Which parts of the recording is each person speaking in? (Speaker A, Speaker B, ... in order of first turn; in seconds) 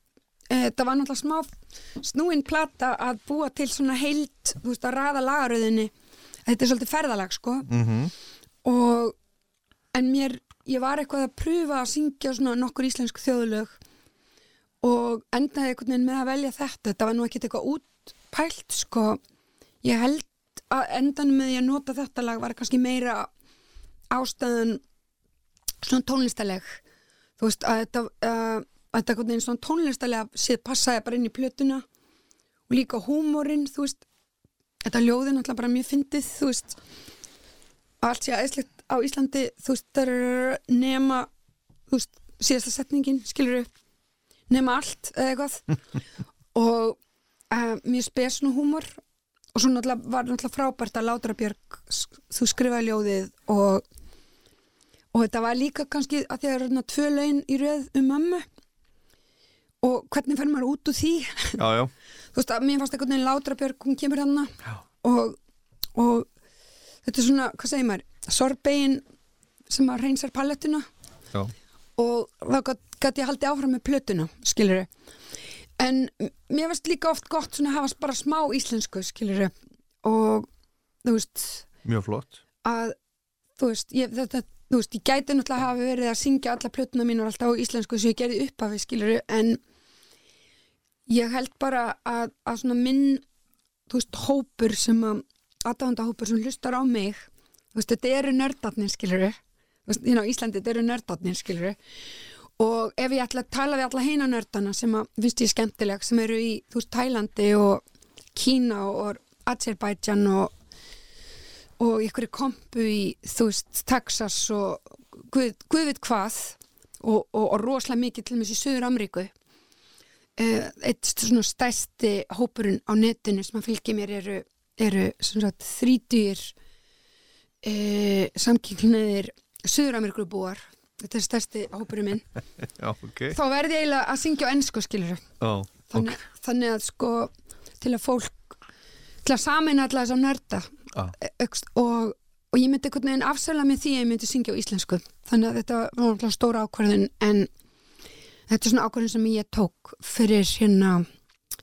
Speaker A: 0.5-1.5, 2.0-5.9, 6.5-7.7, 8.6-9.1, 9.9-13.8, 14.8-19.2, 19.8-23.3, 24.1-24.8, 25.8-26.8, 27.4-31.8, 32.7-34.0, 34.8-36.8, 38.0-41.3, 41.9-43.7, 44.5-45.7, 46.5-47.0, 47.5-49.0, 49.5-53.8, 55.1-58.4, 59.8-61.6, 62.3-64.5, 65.0-65.3, 65.9-66.3, 67.0-69.0, 69.7-70.8, 72.0-74.9, 75.8-79.5, 80.0-80.5, 81.0-81.7, 82.6-82.9, 83.6-89.6, 91.1-93.2, 93.9-101.8, 102.6-107.8, 108.3-110.5, 111.8-119.3, 120.4-126.5, 127.6-132.3, 133.3-135.2, 135.9-138.6, 139.2-147.5, 148.5-151.0
Speaker B: 7.7-8.1, 61.6-61.9, 81.8-82.4, 132.6-133.3, 135.4-136.2